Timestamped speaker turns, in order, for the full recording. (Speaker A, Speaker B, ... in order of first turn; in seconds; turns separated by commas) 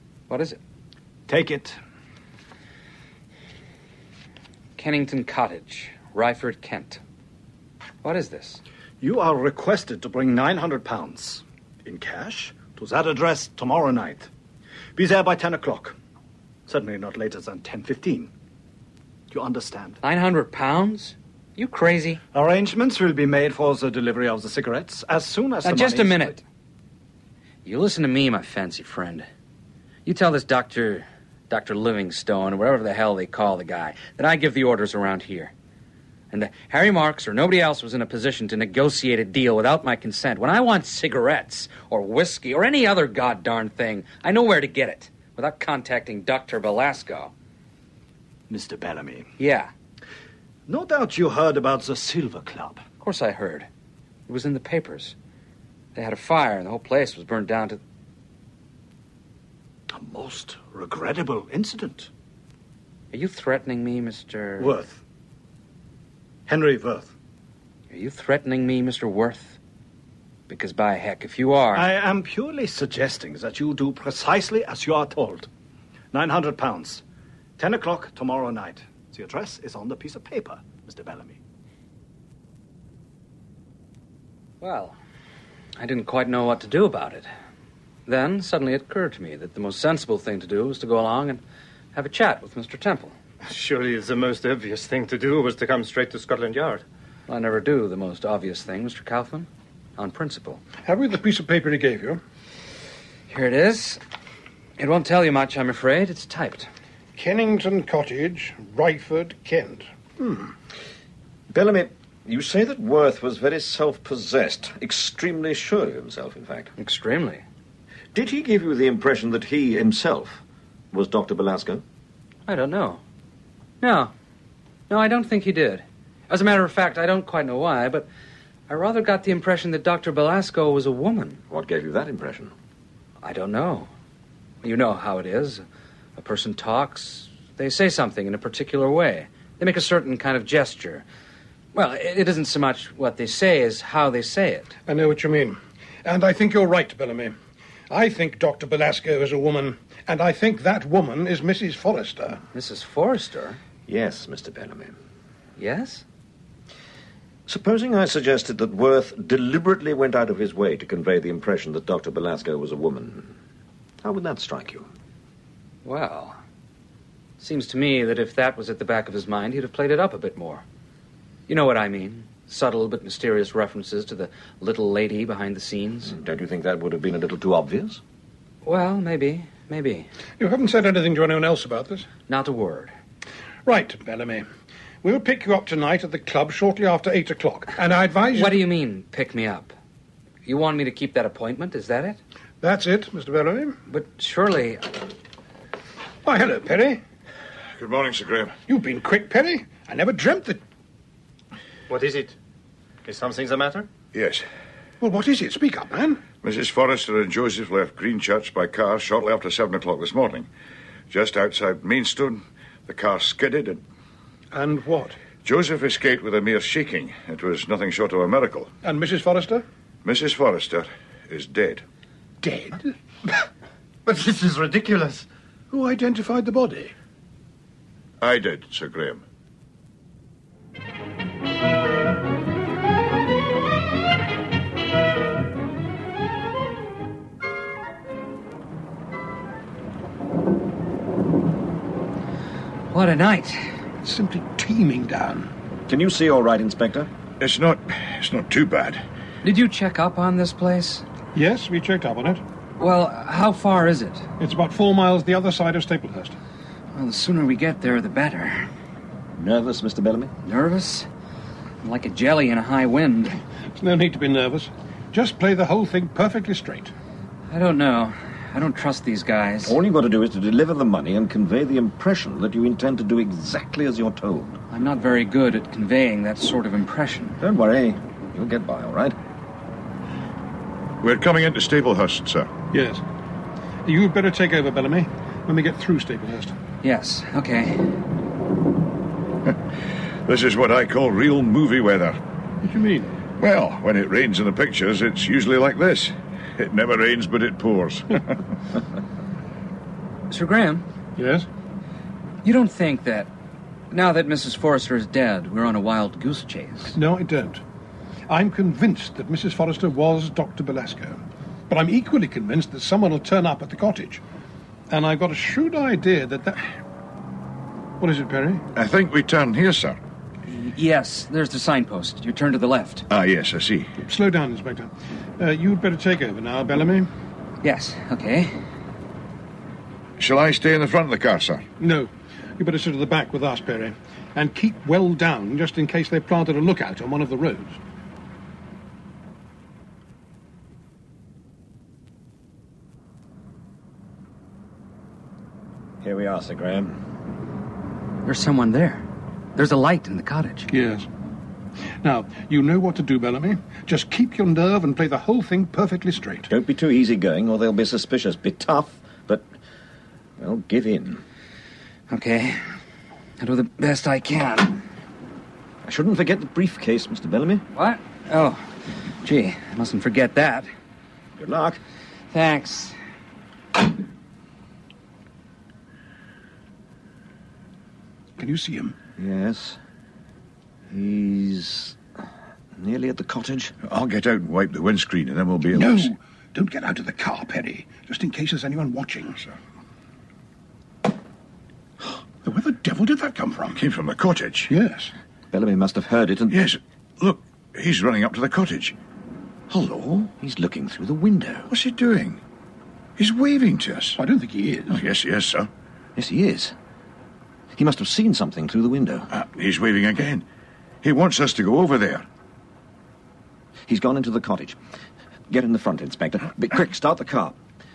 Speaker A: 0.3-0.6, Speaker B: 1.3-1.8, Speaker A: 4.8-7.0, Speaker A: 8.0-8.6, Speaker B: 9.0-14.3, Speaker B: 14.9-15.9, Speaker B: 16.7-18.3, Speaker B: 19.3-20.0, Speaker A: 20.0-22.2, Speaker B: 22.3-26.4, Speaker A: 25.6-26.4, Speaker A: 27.6-29.3, Speaker A: 30.1-35.5, Speaker A: 36.3-47.3, Speaker B: 48.5-49.3, Speaker A: 49.4-49.7, Speaker B: 50.7-52.8, Speaker A: 53.0-53.7, Speaker A: 54.3-55.1, Speaker A: 55.9-57.8, Speaker B: 59.9-62.1, Speaker A: 63.1-64.7, Speaker B: 64.6-65.0, Speaker B: 66.5-67.1, Speaker A: 67.9-69.6, Speaker A: 70.5-71.9, Speaker B: 71.7-75.5, Speaker B: 76.1-77.0, Speaker B: 77.6-81.4, Speaker A: 84.6-85.0, Speaker A: 85.8-87.3, Speaker A: 88.1-91.4, Speaker A: 91.9-93.1, Speaker C: 93.4-96.8, Speaker A: 97.3-100.6, Speaker D: 100.8-102.2, Speaker A: 103.3-104.0, Speaker A: 104.8-106.7, Speaker D: 107.2-110.5, Speaker E: 111.5-116.7, Speaker A: 116.8-117.4, Speaker E: 118.1-121.8, Speaker A: 122.5-123.0, Speaker A: 123.8-124.1, Speaker A: 124.9-128.1, Speaker A: 128.7-131.4, Speaker E: 131.5-132.5, Speaker A: 133.2-133.9, Speaker A: 134.6-135.6, Speaker A: 136.2-141.0, Speaker A: 141.7-144.7, Speaker D: 144.9-147.3, Speaker D: 147.9-152.4, Speaker A: 152.5-153.6, Speaker E: 153.9-154.9, Speaker A: 155.6-156.0, Speaker E: 157.5-163.3, Speaker E: 164.0-164.9, Speaker A: 165.8-166.4, Speaker A: 167.4-170.6, Speaker A: 171.5-176.1, Speaker E: 176.1-178.0, Speaker A: 178.6-180.1, Speaker D: 180.4-182.1, Speaker A: 182.3-182.9, Speaker D: 183.6-184.4, Speaker D: 185.0-188.6, Speaker A: 188.3-189.7, Speaker A: 190.4-192.2, Speaker D: 192.6-193.8, Speaker A: 193.9-195.0, Speaker D: 196.2-197.0, Speaker F: 197.8-198.6, Speaker D: 198.7-200.6, Speaker C: 201.9-202.3, Speaker C: 203.1-203.9, Speaker F: 204.1-204.4, Speaker D: 205.0-206.2, Speaker F: 206.4-210.5, Speaker F: 211.1-213.8, Speaker D: 214.5-215.2, Speaker F: 215.4-218.7, Speaker D: 218.8-219.6, Speaker F: 220.0-221.8, Speaker D: 222.4-222.9, Speaker C: 224.0-225.3, Speaker D: 225.7-226.9, Speaker F: 228.2-229.2, Speaker A: 242.9-243.7, Speaker D: 244.0-245.5, Speaker E: 245.9-247.1, Speaker F: 247.4-249.0, Speaker A: 249.4-251.0, Speaker D: 251.3-252.4, Speaker A: 252.8-254.3, Speaker D: 254.4-256.4, Speaker A: 256.9-258.7, Speaker E: 259.3-260.3, Speaker A: 260.4-261.1, Speaker A: 261.8-263.4, Speaker D: 263.8-266.9, Speaker A: 267.5-269.8, Speaker E: 269.6-274.6, Speaker A: 274.7-277.4, Speaker E: 277.4-279.1, Speaker F: 281.0-282.5, Speaker D: 282.7-283.0, Speaker D: 283.8-286.5, Speaker A: 286.8-287.8, Speaker F: 290.2-292.2, Speaker D: 292.6-293.1, Speaker F: 293.4-298.4, Speaker A: 300.3-300.8, Speaker D: 301.2-301.5, Speaker A: 302.4-303.3, Speaker A: 303.9-306.9, Speaker D: 306.9-307.6, Speaker D: 308.3-314.2, Speaker D: 314.9-316.6, Speaker D: 318.0-318.6, Speaker F: 318.7-320.0, Speaker A: 320.5-323.1, Speaker F: 323.1-323.9, Speaker D: 324.0-327.1, Speaker A: 327.6-328.5, Speaker F: 330.2-331.6, Speaker D: 331.8-337.8, Speaker E: 346.0-347.0, Speaker A: 348.2-350.7, Speaker D: 350.7-351.1, Speaker D: 352.0-356.5, Speaker E: 356.5-359.4, Speaker E: 360.4-361.2, Speaker A: 362.1-362.6, Speaker A: 363.4-364.8, Speaker E: 365.8-367.6, Speaker A: 367.7-368.7, Speaker A: 369.2-370.7, Speaker E: 371.4-371.8, Speaker A: 372.3-372.9, Speaker D: 378.4-378.9, Speaker E: 379.2-379.8, Speaker E: 380.9-382.0, Speaker E: 382.8-383.7, Speaker F: 383.8-386.1, Speaker D: 385.7-389.4, Speaker D: 392.4-393.8, Speaker F: 393.8-394.7, Speaker D: 394.7-395.1, Speaker E: 395.5-396.6, Speaker F: 396.5-398.9, Speaker F: 399.7-400.3, Speaker E: 400.4-401.7, Speaker F: 401.7-402.4, Speaker F: 403.2-404.2, Speaker D: 404.2-405.1, Speaker F: 404.9-405.7, Speaker E: 406.1-406.7, Speaker E: 407.7-409.3, Speaker F: 409.3-410.4, Speaker F: 411.0-412.2, Speaker E: 413.9-414.8, Speaker E: 415.5-417.6